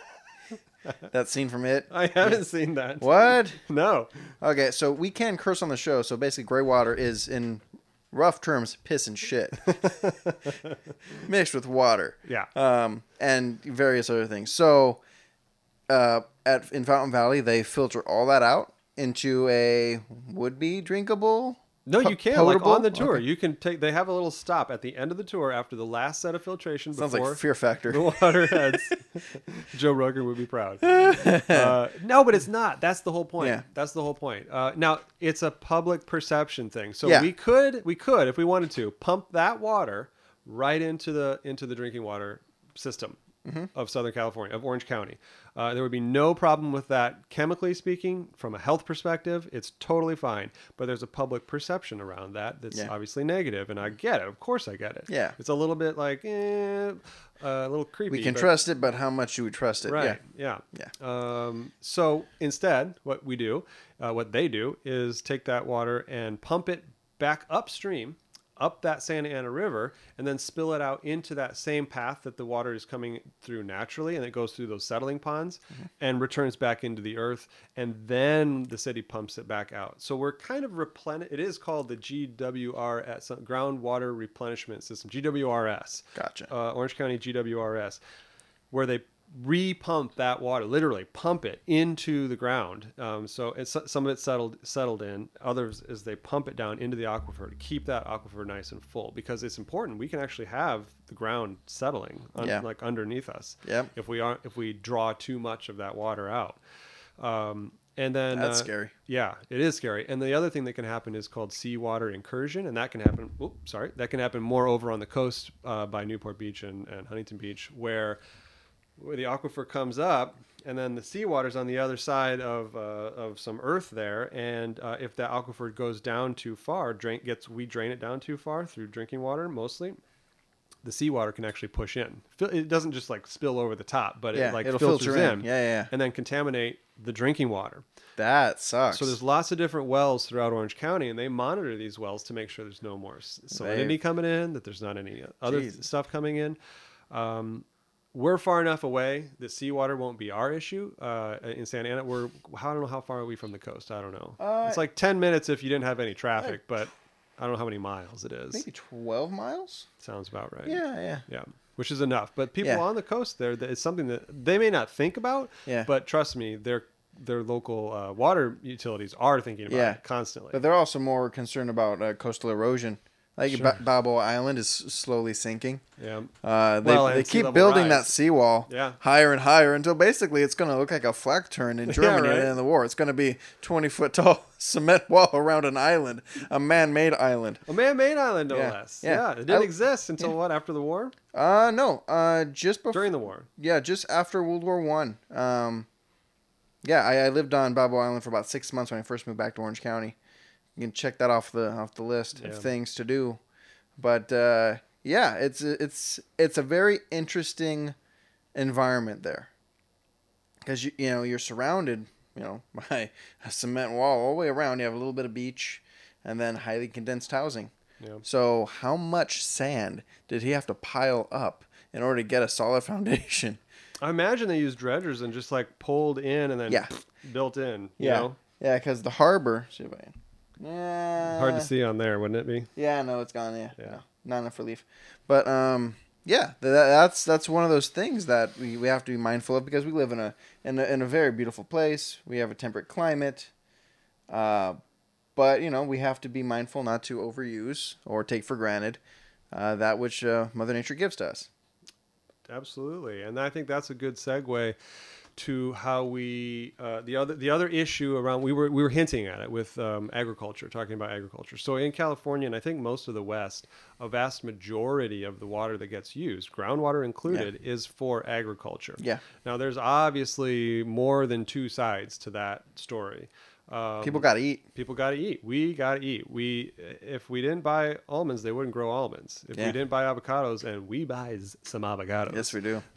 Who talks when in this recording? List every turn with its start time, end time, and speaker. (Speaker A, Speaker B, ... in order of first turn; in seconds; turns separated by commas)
Speaker A: 1.1-2.4, Speaker B: 1.9-4.3, Speaker A: 3.0-3.6, Speaker A: 4.4-9.8, Speaker B: 9.6-11.2, Speaker A: 11.2-15.0, Speaker A: 15.9-23.2, Speaker B: 21.9-43.2, Speaker A: 27.0-28.8, Speaker A: 30.8-31.8, Speaker B: 43.7-58.6, Speaker A: 55.1-55.4, Speaker A: 58.1-60.2, Speaker B: 59.9-88.0, Speaker A: 86.2-86.5, Speaker B: 88.7-106.6, Speaker A: 102.4-102.6, Speaker A: 103.6-103.9, Speaker B: 107.2-118.2, Speaker A: 108.3-108.9, Speaker B: 119.0-130.0, Speaker B: 130.8-137.8, Speaker A: 134.3-135.9, Speaker A: 138.2-139.2, Speaker B: 138.9-146.6, Speaker A: 143.5-144.0, Speaker A: 145.5-145.8, Speaker B: 147.1-158.7, Speaker A: 154.4-154.8, Speaker A: 158.5-159.9, Speaker B: 160.0-170.6, Speaker A: 160.7-161.2, Speaker A: 169.7-170.0, Speaker A: 170.5-175.8, Speaker B: 173.5-173.8, Speaker B: 176.0-176.3, Speaker A: 176.4-187.6, Speaker B: 176.8-178.1, Speaker B: 178.7-179.0, Speaker B: 181.9-182.6, Speaker B: 187.7-191.2, Speaker A: 188.5-190.3, Speaker A: 191.3-195.9, Speaker B: 192.9-193.5, Speaker A: 196.8-200.2, Speaker A: 200.8-203.4, Speaker B: 202.4-202.7, Speaker A: 204.0-207.9, Speaker A: 208.6-209.5, Speaker A: 210.6-217.7, Speaker A: 218.2-223.6, Speaker B: 224.0-228.4, Speaker A: 228.0-231.7, Speaker B: 231.2-232.7, Speaker A: 232.8-243.5, Speaker A: 244.3-244.8, Speaker A: 245.4-249.0, Speaker A: 249.5-251.5, Speaker B: 252.5-254.8, Speaker B: 255.4-282.6, Speaker A: 274.0-274.6, Speaker A: 282.3-282.8